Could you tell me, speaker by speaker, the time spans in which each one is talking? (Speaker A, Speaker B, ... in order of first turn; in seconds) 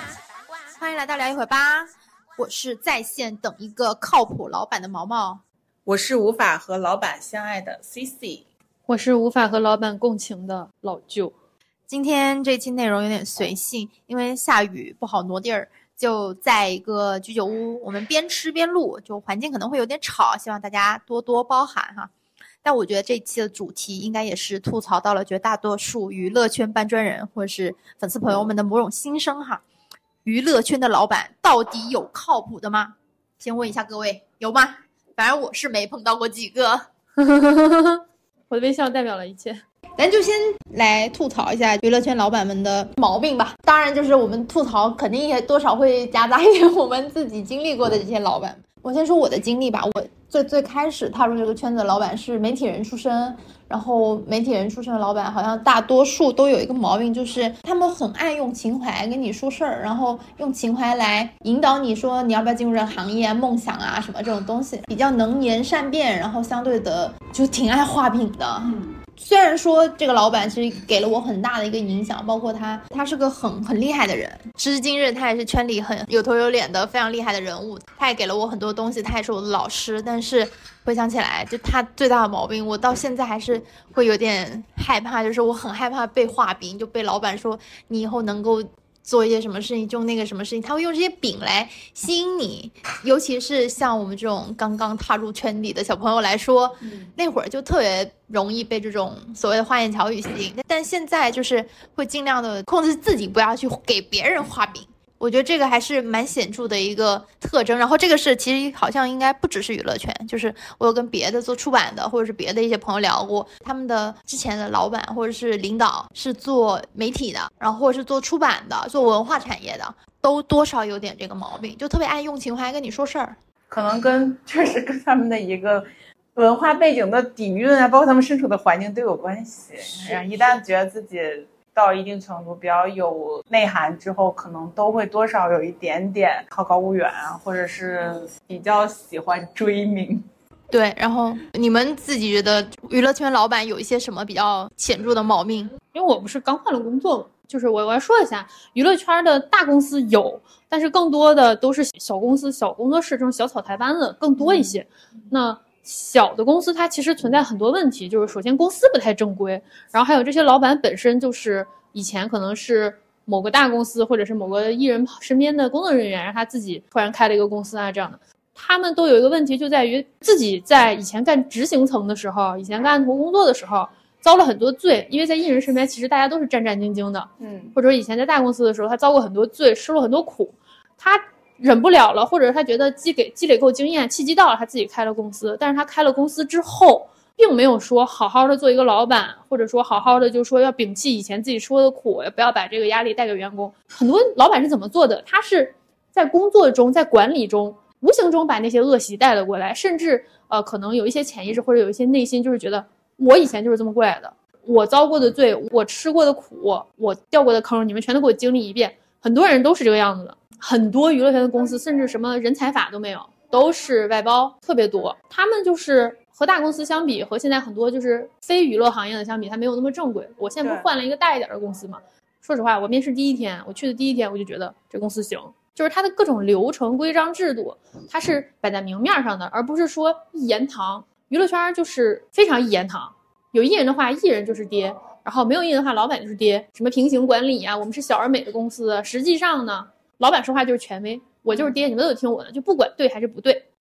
Speaker A: 0.7-5.4, 11.9-22.1, 22.6-29.6, 30.2-36.9, 40.0-123.4, 140.7-145.7
Speaker B: 5.9-8.4, 123.7-140.3, 177.4-177.7
Speaker C: 8.9-11.3, 37.2-39.6, 145.9-243.6